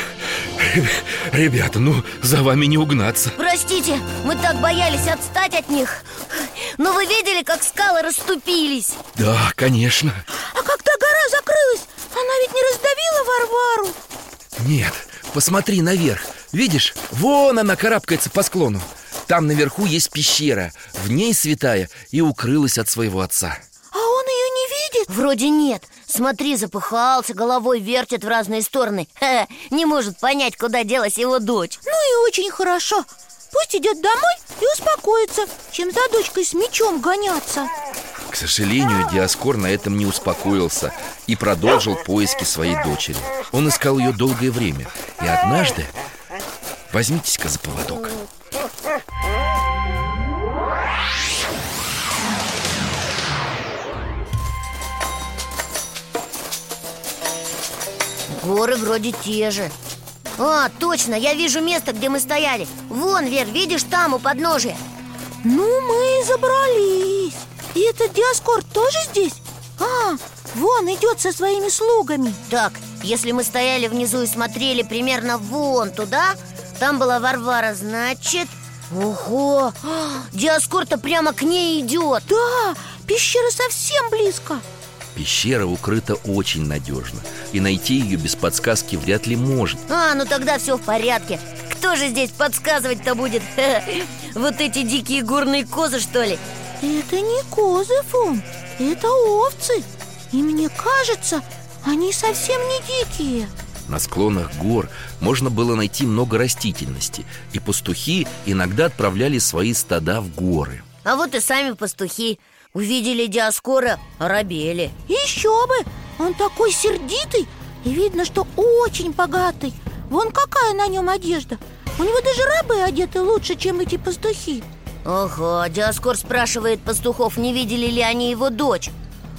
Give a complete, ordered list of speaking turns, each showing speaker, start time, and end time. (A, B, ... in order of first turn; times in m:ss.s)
0:00.4-0:03.4 A
0:03.4-0:09.0 B
0:09.1-0:10.2 A
0:10.4-0:14.0 C
0:14.6-0:23.6 A
0:23.9-0:25.1 C
0:25.1-0:31.8 B
0:31.8-0:37.7 C
0:38.3-0:45.9 A
0:46.9-0:48.2 A
0:58.3-0:59.7 B
1:00.4-1:04.8 B
1:05.4-1:12.4 C
1:12.5-1:22.2 B
1:22.3-1:24.6 C
1:25.1-1:29.8 A
1:29.9-1:36.4 B
1:36.8-1:43.5 C
1:43.9-1:50.8 A
1:51.0-1:54.9 B
1:55.1-2:04.6 C
2:05.0-2:08.9 B